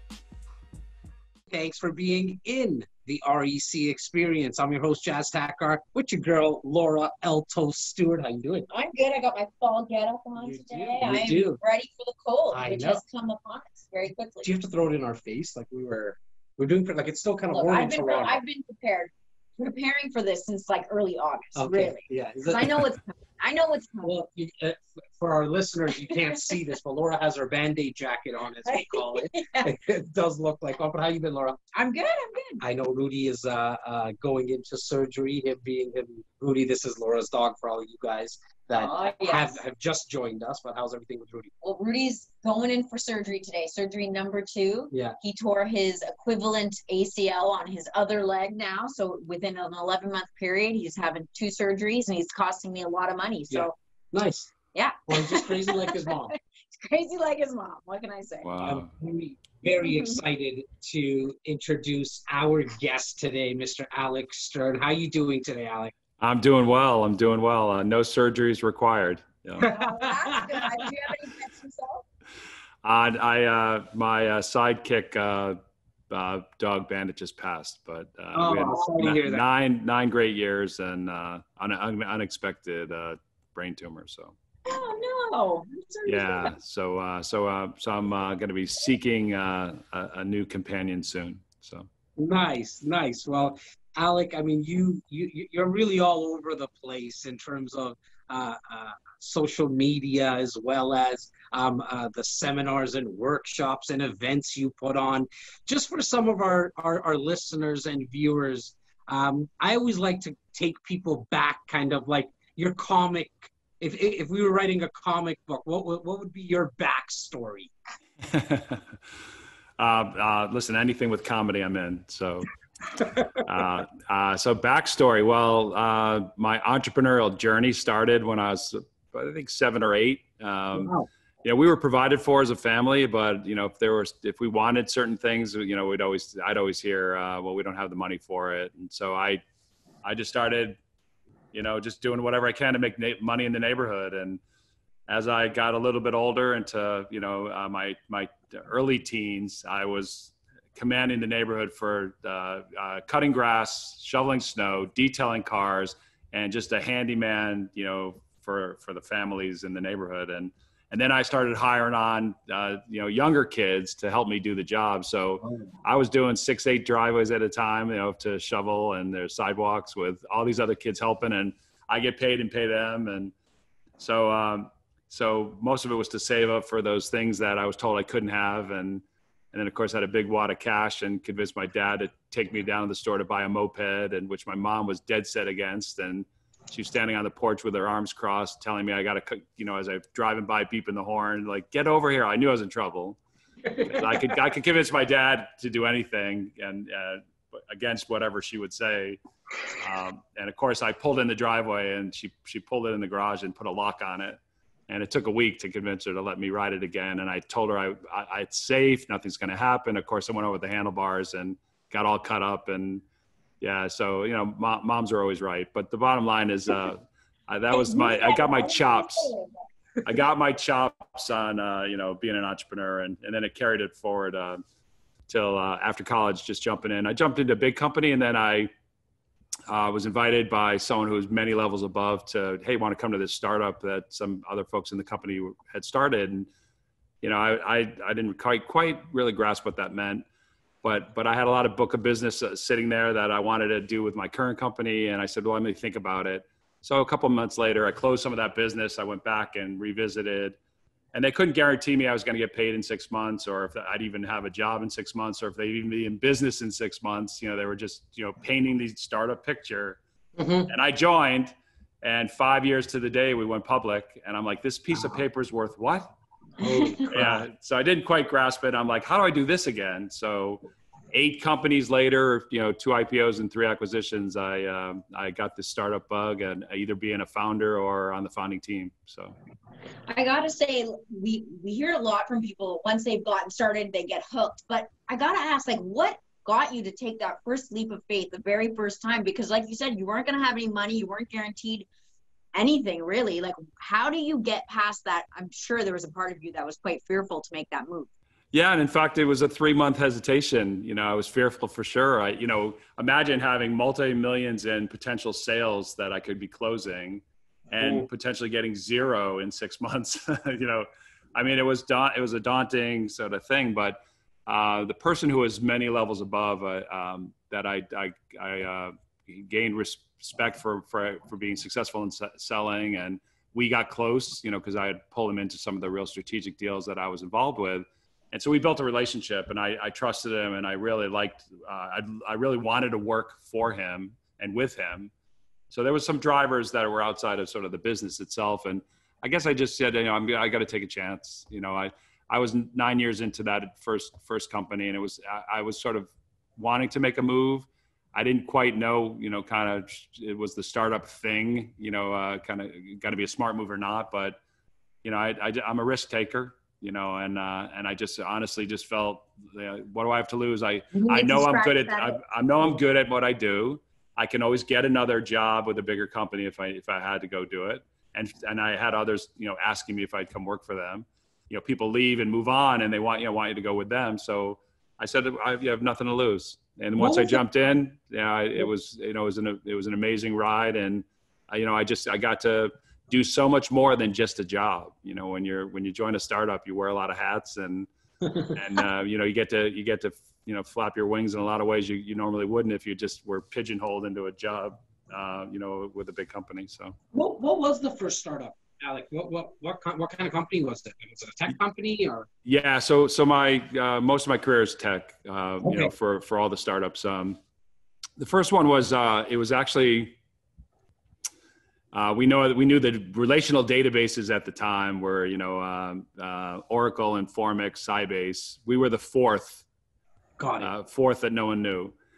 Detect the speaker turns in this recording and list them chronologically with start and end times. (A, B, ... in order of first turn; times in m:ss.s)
0:01.5-0:08.7 A
0:08.7-0:14.5 B
0:10.4-0:11.6 A
0:12.5-0:13.0 A
0:14.4-0:18.4 A
0:17.5-0:24.1 B
0:21.5-0:22.8 A
0:24.0-0:31.6 A
0:28.6-0:29.7 B
0:31.7-0:32.6 B
0:32.6-0:41.5 A
0:38.7-0:39.6 B
0:41.6-0:53.7 B
0:44.9-0:45.2 A
0:53.5-0:54.5 A
0:54.7-0:58.5 B
0:55.1-0:56.3 A
0:58.4-0:58.9 C
0:58.6-1:05.9 A
0:59.8-1:00.2 B
1:06.2-1:09.7 C
1:09.6-1:10.8 A
1:09.6-1:12.0 B
1:12.8-1:15.6 C
1:16.1-1:24.3 C
1:18.3-1:19.4 A
1:24.6-1:26.5 B
1:26.0-1:31.9 C
1:32.2-1:57.7 A
1:58.3-1:59.0 C
1:59.8-2:02.5 C
2:03.4-2:19.4 C
2:10.7-2:11.1 A
2:20.0-2:20.8 C
2:21.5-2:24.4 C
2:25.1-2:53.3 C
2:54.0-3:13.2 C
3:13.7-3:19.2 C
3:19.7-3:33.0 C
3:33.6-3:39.3 C
3:37.7-3:39.5 B
3:40.0-3:44.6 C
3:45.3-3:48.7 C
3:49.7-3:56.5 C
3:57.2-4:00.2 C
4:00.8-4:10.6 C
4:11.1-4:20.0 C
4:20.4-4:20.7 A
4:20.7-4:26.1 C
4:26.6-4:27.4 A
4:26.6-4:27.0 B
4:27.1-4:39.3 C
4:40.1-4:51.9 B
4:52.5-4:58.1 B
4:58.5-5:35.1 C
5:07.8-5:08.0 A
5:35.7-5:54.4 C
5:55.0-6:37.0 C
6:00.9-6:02.2 B
6:17.0-6:17.4 A
6:37.1-6:42.3 A
6:42.4-6:47.4 C
6:45.6-6:45.9 A
6:48.2-6:50.2 C
6:51.9-6:59.6 C
7:00.4-7:00.7 A
7:00.6-7:01.9 C